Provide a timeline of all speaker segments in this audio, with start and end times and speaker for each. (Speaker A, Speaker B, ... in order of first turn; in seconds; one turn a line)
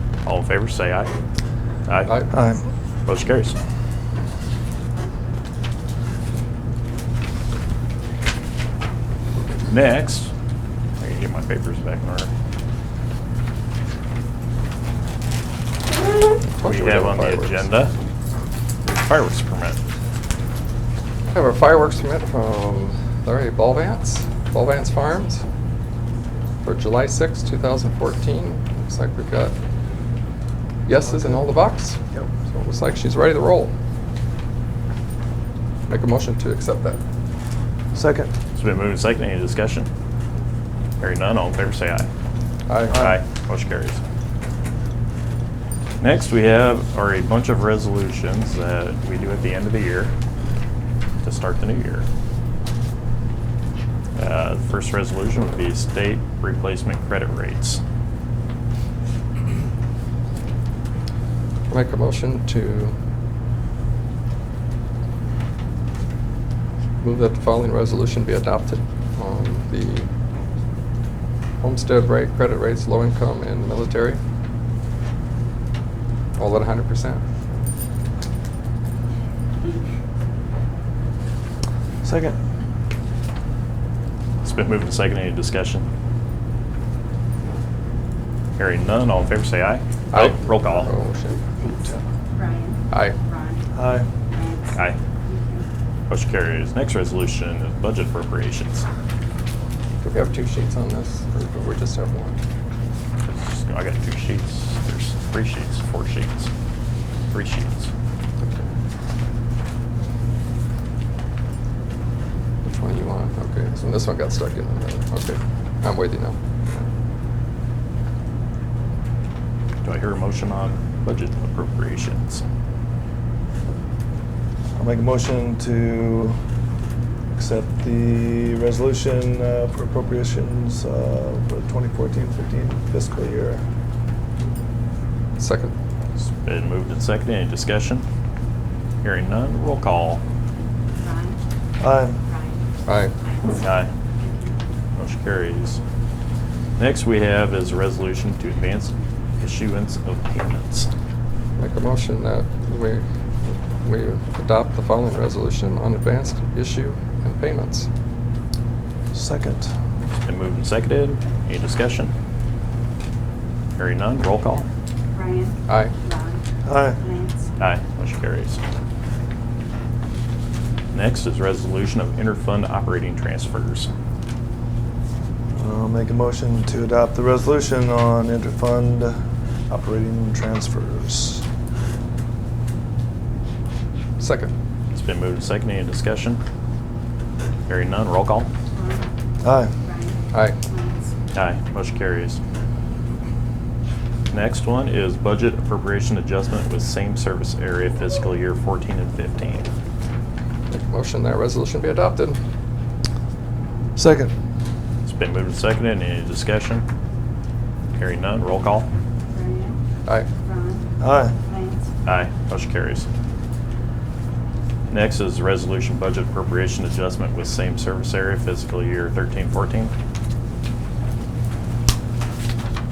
Speaker A: 0.2-1.1
Speaker A: 1.9-2.2
Speaker B: 2.3-2.6
Speaker A: 3.1-3.6
Speaker A: 9.7-10.3
Speaker A: 11.0-12.3
Speaker C: 16.4-17.7
Speaker A: 16.6-17.9
Speaker A: 18.9-19.8
Speaker C: 21.3-25.4
Speaker C: 26.6-29.6
Speaker C: 30.9-33.7
Speaker C: 35.9-37.0
Speaker B: 37.9-38.3
Speaker A: 38.5-39.9
Speaker A: 41.0-42.1
Speaker C: 42.7-43.1
Speaker A: 42.9-44.0
Speaker A: 46.0-50.1
Speaker A: 51.2-52.1
Speaker A: 54.2-57.8
Speaker C: 61.7-63.0
Speaker C: 67.0-70.1
Speaker C: 71.6-74.2
Speaker C: 76.4-77.2
Speaker B: 82.0-82.4
Speaker A: 84.4-85.9
Speaker A: 88.6-90.9
Speaker C: 90.1-91.5
Speaker B: 91.6-92.0
Speaker D: 92.3-93.6
Speaker C: 92.9-93.2
Speaker B: 93.7-94.1
Speaker D: 94.3-94.8
Speaker D: 95.3-95.7
Speaker A: 96.1-98.9
Speaker C: 100.0-102.4
Speaker A: 103.3-106.5
Speaker A: 107.3-107.9
Speaker C: 108.4-108.7
Speaker C: 112.7-116.9
Speaker A: 119.8-122.4
Speaker B: 124.8-126.4
Speaker B: 127.3-133.7
Speaker C: 135.4-135.7
Speaker A: 136.2-138.1
Speaker A: 139.0-140.2
Speaker D: 141.0-141.4
Speaker B: 141.8-142.2
Speaker D: 142.3-142.6
Speaker C: 142.9-143.1
Speaker D: 143.2-143.6
Speaker A: 143.6-143.9
Speaker D: 144.2-144.5
Speaker A: 145.0-145.8
Speaker A: 146.8-150.9
Speaker C: 151.6-157.9
Speaker B: 159.1-159.7
Speaker A: 160.2-162.1
Speaker A: 163.8-164.7
Speaker D: 165.1-166.4
Speaker C: 165.7-165.9
Speaker B: 166.7-167.0
Speaker D: 167.0-167.4
Speaker A: 167.6-168.6
Speaker A: 170.9-173.9
Speaker B: 175.6-181.4
Speaker C: 184.2-184.5
Speaker A: 184.9-186.4
Speaker A: 187.7-188.5
Speaker D: 188.7-189.1
Speaker B: 189.4-189.7
Speaker D: 189.8-191.1
Speaker C: 190.3-190.6
Speaker A: 191.3-192.4
Speaker A: 194.3-199.7
Speaker C: 200.7-202.4
Speaker B: 204.0-204.3
Speaker A: 205.1-206.9
Speaker A: 207.9-208.9
Speaker D: 209.3-209.8
Speaker D: 210.4-210.9
Speaker B: 211.0-211.3
Speaker D: 211.4-211.8
Speaker A: 212.1-213.1
Speaker A: 214.9-219.9